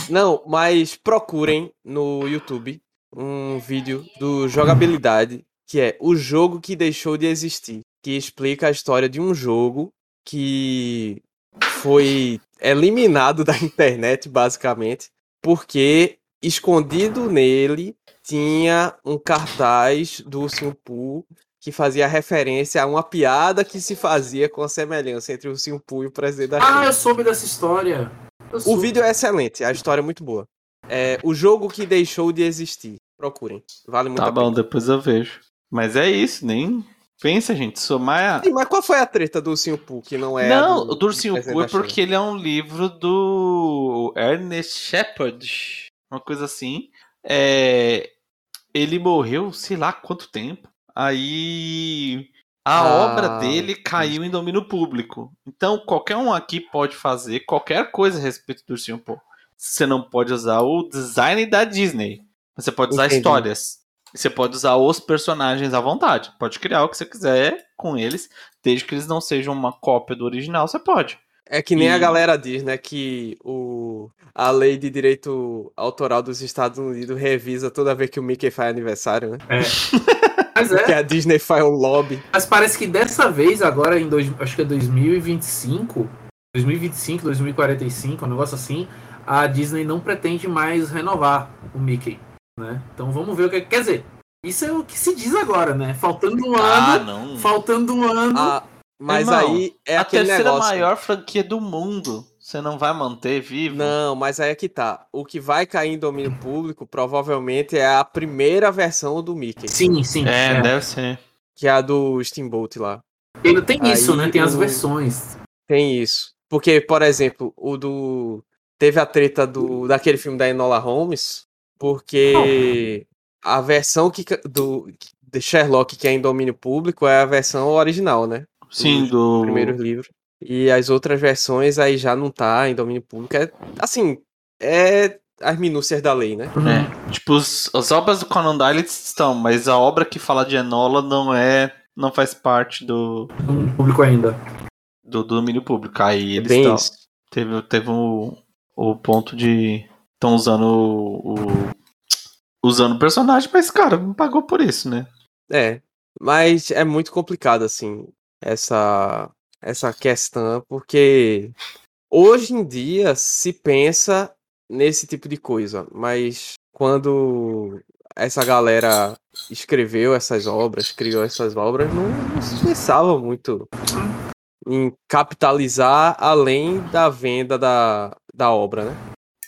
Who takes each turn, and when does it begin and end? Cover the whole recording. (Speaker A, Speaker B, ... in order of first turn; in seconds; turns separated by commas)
Speaker A: 0.1-26.9, Speaker B: 26.6-29.0, Speaker A: 28.7-34.6, Speaker C: 34.2-38.5, Speaker A: 38.4-42.0, Speaker C: 40.4-48.1, Speaker C: 48.7-71.2, Speaker A: 52.8-54.2, Speaker A: 62.9-63.5, Speaker A: 71.5-79.5, Speaker C: 71.8-72.2, Speaker B: 79.5-79.8, Speaker C: 79.7-80.3, Speaker B: 80.5-81.0, Speaker A: 80.8-82.2, Speaker B: 82.3-98.6, Speaker C: 96.6-97.6, Speaker A: 98.3-100.9, Speaker C: 99.1-104.0, Speaker A: 103.7-109.8, Speaker B: 109.7-110.7, Speaker C: 110.2-111.2, Speaker A: 111.6-113.0, Speaker B: 113.4-115.3, Speaker A: 113.8-114.8, Speaker A: 115.7-136.5, Speaker C: 128.7-129.8, Speaker B: 136.5-136.9, Speaker C: 136.6-143.3, Speaker B: 143.5-144.3, Speaker C: 145.1-151.8, Speaker A: 146.4-146.9, Speaker C: 152.6-155.1, Speaker A: 155.5-161.6, Speaker A: 162.1-173.7, Speaker A: 174.7-179.0